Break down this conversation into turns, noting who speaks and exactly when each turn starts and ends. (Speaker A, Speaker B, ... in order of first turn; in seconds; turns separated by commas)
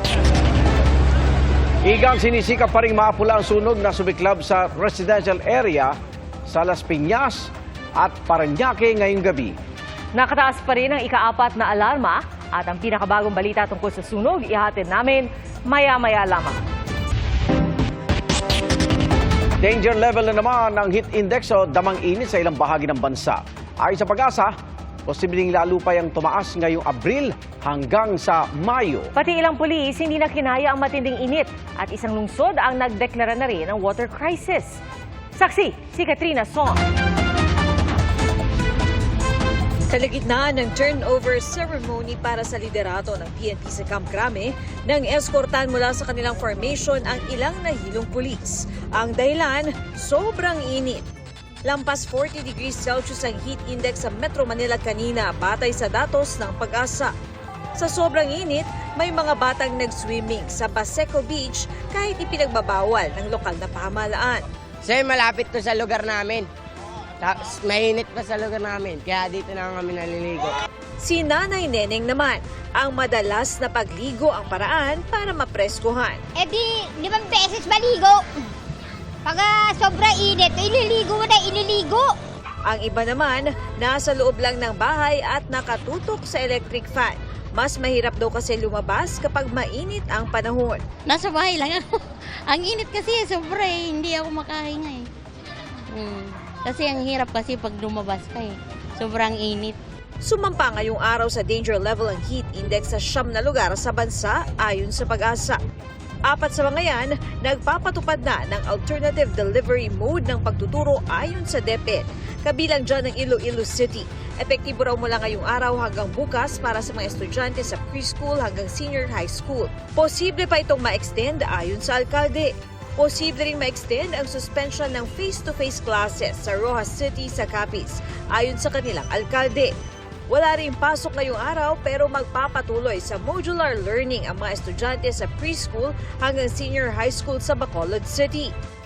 Speaker A: 1.8-5.9, Speaker A: 6.5-9.6, Speaker B: 10.1-16.6, Speaker A: 19.6-24.5, Speaker A: 25.1-29.1, Speaker B: 29.1-34.8, Speaker B: 35.4-36.8, Speaker C: 39.9-51.0, Speaker C: 51.7-57.1, Speaker C: 57.8-64.4, Speaker D: 64.8-66.5, Speaker D: 67.2-70.6, Speaker C: 71.0-76.2, Speaker E: 76.4-78.2, Speaker E: 79.2-82.1, Speaker C: 82.7-90.8, Speaker F: 91.1-91.8, Speaker F: 92.5-95.0, Speaker F: 95.9-99.7, Speaker C: 100.2-105.6, Speaker C: 106.3-129.7, Speaker C: 130.3-138.5